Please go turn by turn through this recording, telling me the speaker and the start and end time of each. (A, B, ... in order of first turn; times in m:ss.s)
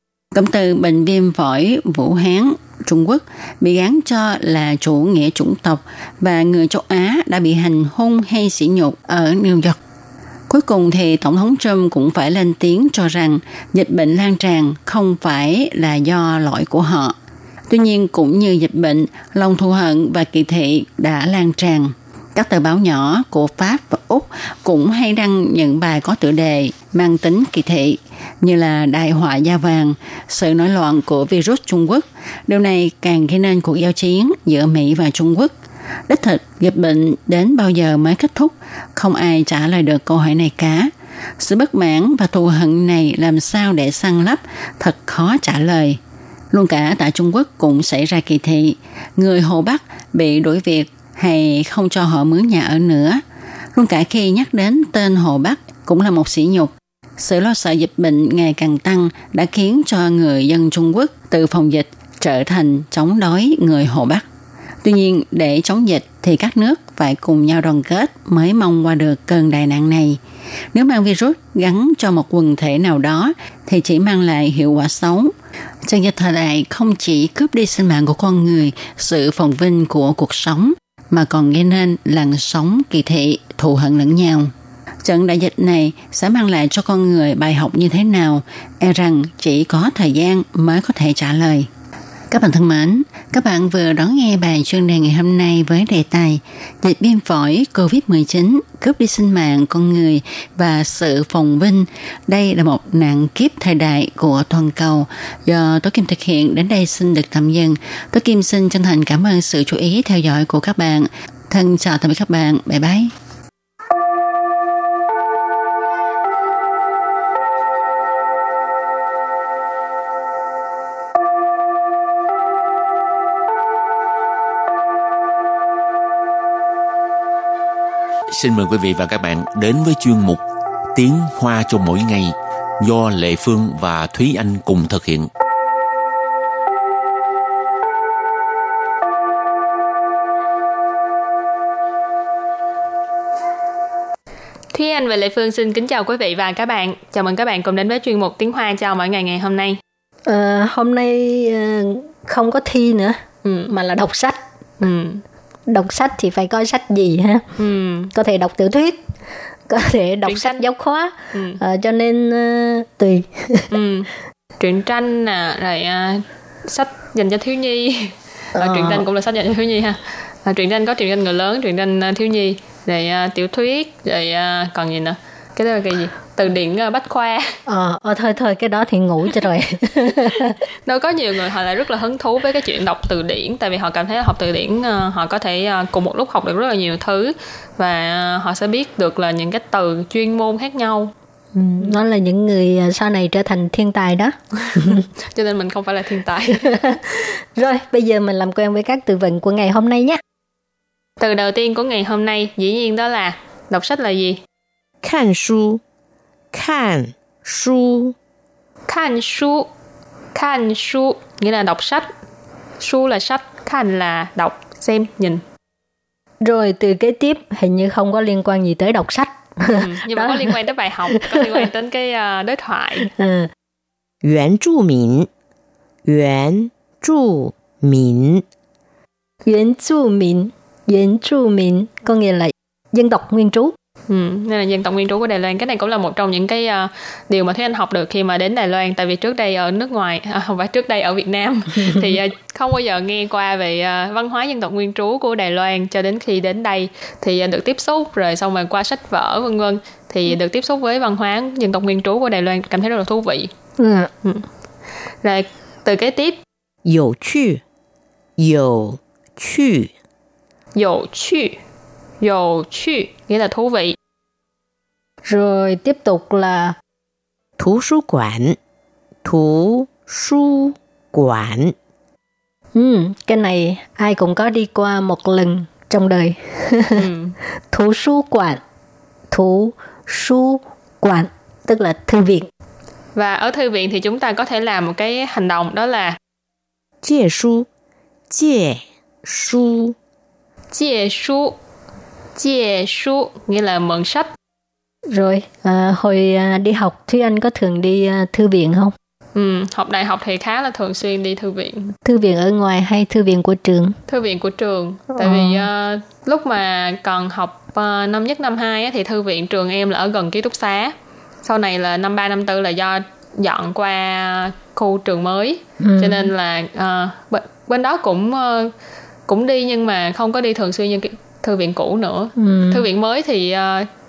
0:00.3-0:09.8 A
0:10.5-0:17.2 A
0:17.7-0:35.5 A
0:36.1-0:46.0 A
0:46.5-0:53.2 A
0:53.7-1:04.2 A
1:04.8-1:10.2 A
1:10.7-1:15.3 A
1:15.8-1:31.7 A
1:32.3-1:53.1 A
2:08.3-2:10.4 B
2:10.9-2:15.3 B
2:24.7-2:29.8 C
2:30.3-2:34.4 D
2:33.4-2:33.7 C
2:34.8-2:35.2 C
2:35.7-2:37.5 D
2:37.6-2:38.1 C
2:38.1-2:39.0 D
2:39.7-2:43.7 D
2:40.2-2:40.6 C
2:41.3-2:41.6 C
2:43.7-2:44.1 C
2:44.6-2:57.6 C
2:48.6-2:49.1 D
2:57.7-3:00.6 D
3:00.9-3:11.1 C
3:11.6-3:15.0 D
3:14.9-3:16.6 C
3:16.7-3:20.2 D
3:21.2-3:24.4 C
3:25.0-3:25.8 E
3:26.5-3:28.2 E
3:28.9-3:29.7 C
3:30.3-3:32.1 C
3:32.8-3:35.4 C
3:36.4-3:40.5 D
3:39.8-3:43.1 C
3:41.2-3:41.7 D
3:43.2-3:43.5 D
3:44.2-3:45.3 E
3:46.0-3:48.4 E
3:49.5-3:53.8 D
3:54.1-4:13.5 C
4:13.8-4:14.1 D
4:15.2-4:16.4 C
4:16.8-4:17.6 E
4:18.4-4:19.9 E
4:20.8-4:21.6 C
4:22.2-4:24.0 C
4:25.2-4:26.8 D
4:27.6-4:28.6 E
4:29.2-4:31.8 E
4:32.8-4:37.1 D
4:37.0-4:37.4 C
4:37.7-4:38.6 D
4:39.3-4:42.5 D
4:43.2-4:46.2 C
4:47.0-4:47.7 E
4:48.3-4:50.0 E
4:50.7-4:51.6 C
4:52.4-4:54.3 C
4:55.1-4:59.0 D
4:59.4-5:01.9 C
5:02.0-5:04.0 D
5:04.1-5:18.7 C
5:05.2-5:05.7 D
5:15.8-5:16.3 D
5:19.3-5:23.9 C
5:22.4-5:22.9 D